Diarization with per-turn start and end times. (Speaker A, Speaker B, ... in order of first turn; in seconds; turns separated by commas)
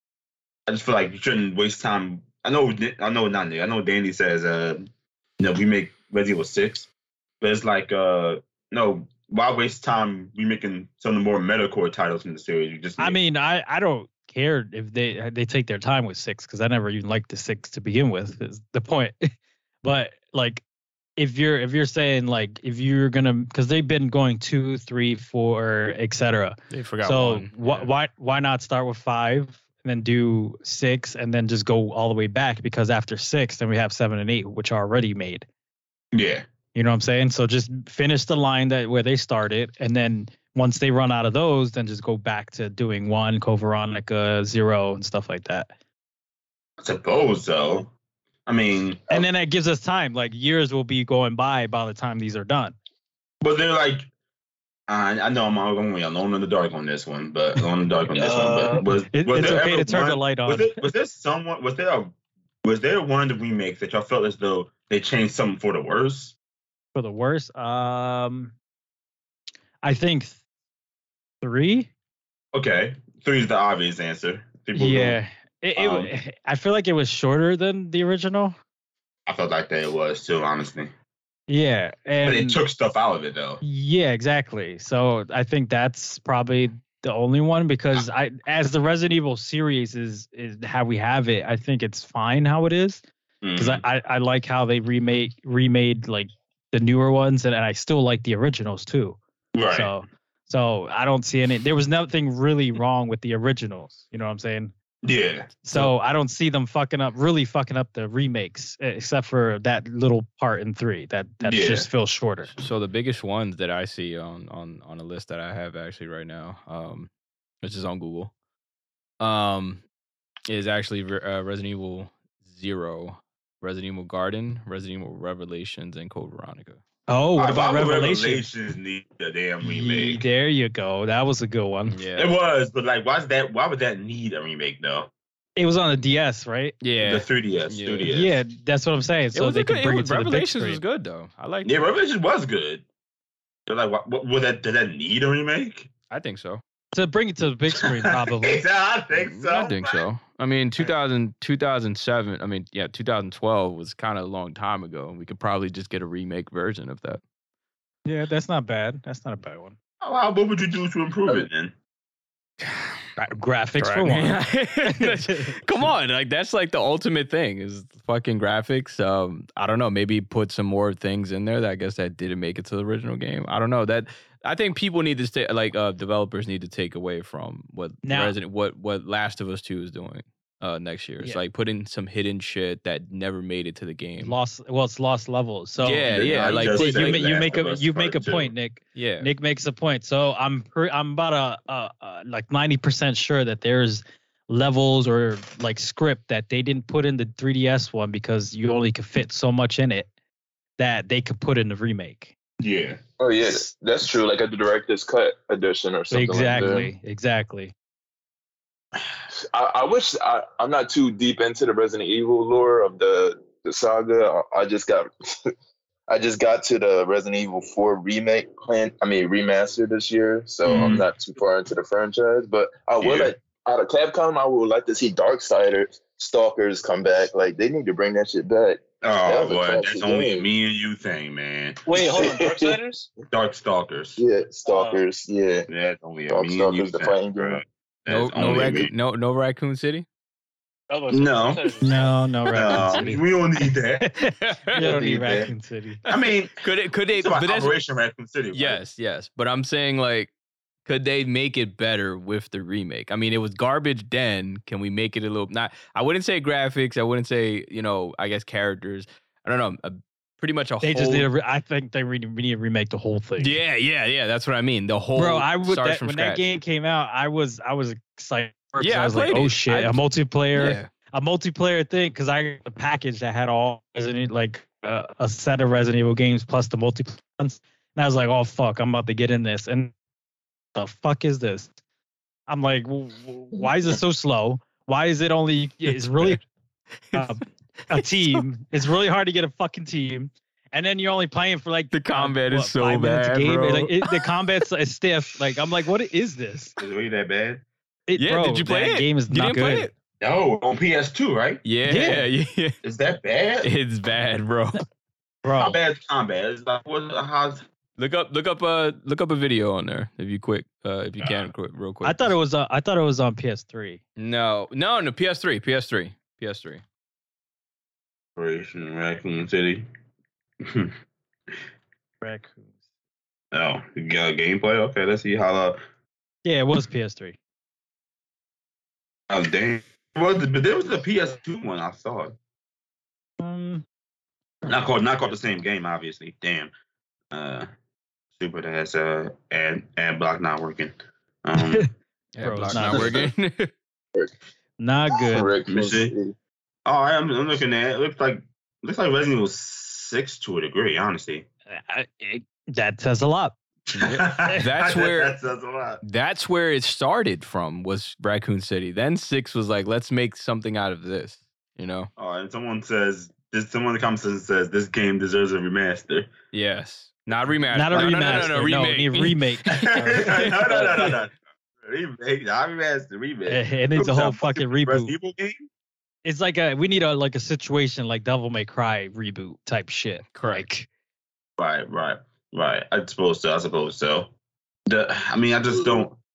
Speaker A: 0.7-4.9, Speaker A: 5.4-6.9, Speaker A: 7.4-13.2, Speaker B: 13.0-19.3, Speaker B: 19.8-20.6, Speaker B: 21.2-35.5, Speaker C: 26.7-27.9, Speaker A: 36.1-36.5, Speaker B: 36.7-45.7, Speaker A: 46.8-47.9, Speaker A: 48.5-49.3, Speaker B: 49.1-52.8, Speaker A: 53.4-54.1, Speaker A: 54.9-66.3, Speaker D: 58.1-58.9, Speaker B: 59.1-60.8, Speaker B: 67.0-68.5, Speaker B: 69.8-70.4, Speaker B: 71.4-71.9, Speaker A: 72.5-75.2, Speaker B: 74.8-78.5, Speaker A: 75.8-76.1, Speaker A: 79.3-80.9, Speaker B: 81.5-82.6, Speaker A: 82.2-83.6, Speaker B: 83.6-93.0, Speaker A: 93.4-93.8, Speaker B: 93.6-104.7, Speaker A: 99.5-99.9, Speaker A: 105.0-105.5, Speaker B: 105.6-112.5, Speaker A: 111.4-111.9, Speaker C: 112.5-117.1, Speaker C: 117.6-118.3, Speaker C: 119.2-119.8, Speaker C: 120.5-126.8, Speaker B: 127.1-128.5, Speaker A: 127.4-130.2, Speaker B: 129.6-132.0, Speaker C: 131.9-132.3, Speaker A: 132.2-135.1, Speaker B: 135.6-136.8, Speaker C: 136.8-138.1, Speaker A: 137.0-138.4, Speaker B: 138.1-140.8, Speaker C: 139.3-141.8, Speaker A: 141.6-142.8, Speaker A: 143.7-145.9, Speaker C: 146.1-146.6, Speaker B: 146.9-148.6, Speaker A: 147.8-150.1, Speaker C: 149.2-157.2, Speaker B: 158.1-159.8, Speaker A: 160.0-161.7, Speaker C: 162.6-163.0, Speaker B: 163.2-165.9, Speaker C: 163.8-184.4, Speaker B: 178.0-178.4, Speaker B: 184.2-200.1, Speaker C: 185.8-187.2, Speaker A: 186.1-188.5, Speaker C: 188.9-189.3, Speaker B: 200.8-202.3, Speaker A: 202.6-203.0, Speaker E: 203.2-206.9, Speaker B: 206.1-207.7, Speaker E: 209.3-215.5, Speaker E: 216.1-230.5, Speaker A: 220.7-221.1, Speaker A: 223.0-223.3, Speaker A: 229.0-231.8, Speaker D: 231.9-233.1, Speaker E: 231.9-232.8, Speaker A: 233.3-234.2, Speaker E: 234.2-235.7, Speaker D: 234.7-235.0, Speaker A: 235.7-238.9, Speaker E: 236.3-237.6, Speaker C: 238.1-240.1, Speaker D: 240.9-242.1, Speaker A: 241.1-241.7, Speaker B: 241.8-243.2, Speaker A: 242.5-244.1, Speaker B: 244.0-246.0, Speaker C: 244.4-244.9, Speaker A: 244.8-245.5, Speaker A: 246.1-246.6, Speaker C: 246.1-247.8, Speaker A: 247.2-248.8, Speaker C: 248.5-250.3, Speaker C: 250.9-261.3, Speaker B: 260.8-263.6, Speaker C: 263.4-266.4, Speaker B: 265.1-279.9, Speaker C: 268.8-270.0, Speaker C: 270.6-270.9, Speaker B: 280.8-281.7, Speaker B: 282.5-286.4, Speaker B: 287.1-296.8, Speaker C: 287.9-288.4, Speaker C: 291.9-294.3, Speaker A: 296.8-297.6, Speaker B: 298.1-299.9, Speaker C: 298.2-299.9, Speaker A: 300.2-301.6, Speaker C: 301.6-302.8, Speaker B: 301.9-302.3, Speaker A: 302.8-303.7, Speaker C: 303.6-304.8, Speaker B: 305.4-305.8, Speaker A: 305.6-307.6, Speaker C: 308.0-312.3, Speaker B: 312.0-314.0, Speaker C: 314.2-316.8, Speaker A: 318.4-319.9, Speaker A: 320.6-320.9, Speaker B: 322.2-322.7, Speaker A: 323.5-325.8, Speaker B: 326.4-327.4, Speaker A: 329.3-332.4, Speaker B: 333.4-333.8, Speaker A: 334.7-336.7, Speaker A: 337.3-337.7, Speaker A: 338.4-341.9, Speaker B: 341.6-341.9, Speaker C: 342.4-343.7, Speaker B: 342.4-343.3, Speaker B: 344.8-345.5, Speaker E: 345.2-346.4, Speaker A: 345.7-346.1, Speaker A: 346.9-351.5, Speaker B: 351.7-353.6, Speaker C: 353.9-355.4, Speaker A: 353.9-356.0, Speaker C: 356.0-362.1, Speaker A: 362.2-366.3, Speaker C: 366.5-371.1, Speaker B: 367.7-371.1, Speaker A: 367.9-368.5, Speaker A: 369.7-375.7, Speaker B: 373.5-375.1, Speaker B: 376.2-380.9, Speaker C: 380.3-380.6, Speaker A: 381.6-384.3, Speaker A: 384.9-386.2, Speaker E: 385.7-386.1